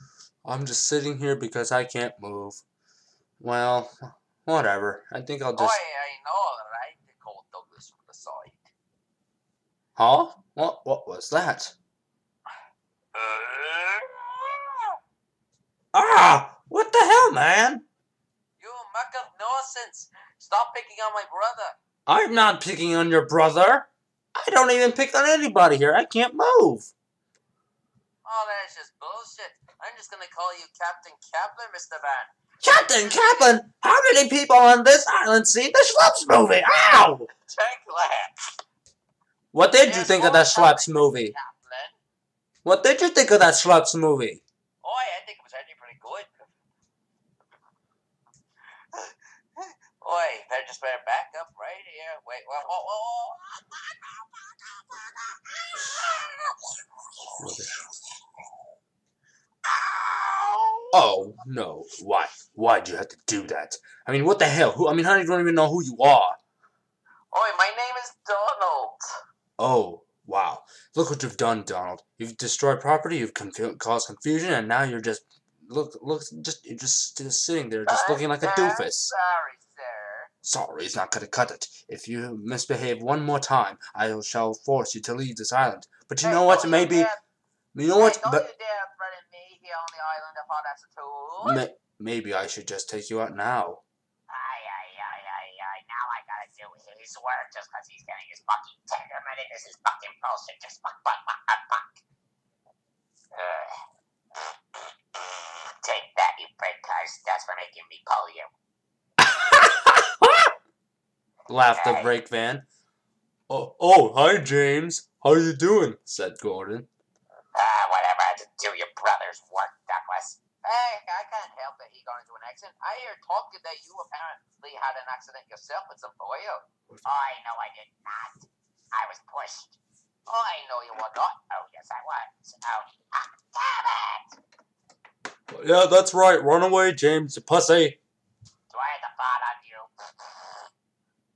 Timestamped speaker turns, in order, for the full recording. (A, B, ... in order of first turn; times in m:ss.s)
0:00.4-0:02.6 A
0:03.4-0:05.8 A
0:05.5-0:08.7 B
0:10.0-0:11.7 A
0:13.1-0:14.9 B
0:15.9-0:17.8 A
0:18.6-0:21.8 B
0:22.1-0:26.9 A
0:28.2-0:32.3 B
0:32.6-0:37.3 A
0:37.5-0:38.3 B
0:39.5-0:41.3 A
0:39.8-0:42.0 B
0:42.6-0:44.4 A
0:44.8-0:46.3 B
0:48.9-0:57.4 B
0:57.4-0:57.8 A
0:59.6-1:01.2 B
1:00.9-1:06.4 A
1:07.3-1:09.0 B
1:09.6-1:19.1 A
1:17.9-1:20.3 B
1:20.4-1:27.1 A
1:26.2-1:27.2 B
1:27.7-1:28.4 A
1:27.9-1:31.6 B
1:31.4-1:33.8 A
1:34.3-1:42.0 B
1:43.3-1:43.8 B
1:45.1-1:48.5 B
1:49.2-1:50.5 A
1:51.5-1:52.6 A
1:51.7-1:52.1 B
1:53.5-1:56.9 A
1:57.5-2:14.4 B
2:15.5-2:18.0 A
2:18.7-2:20.6 B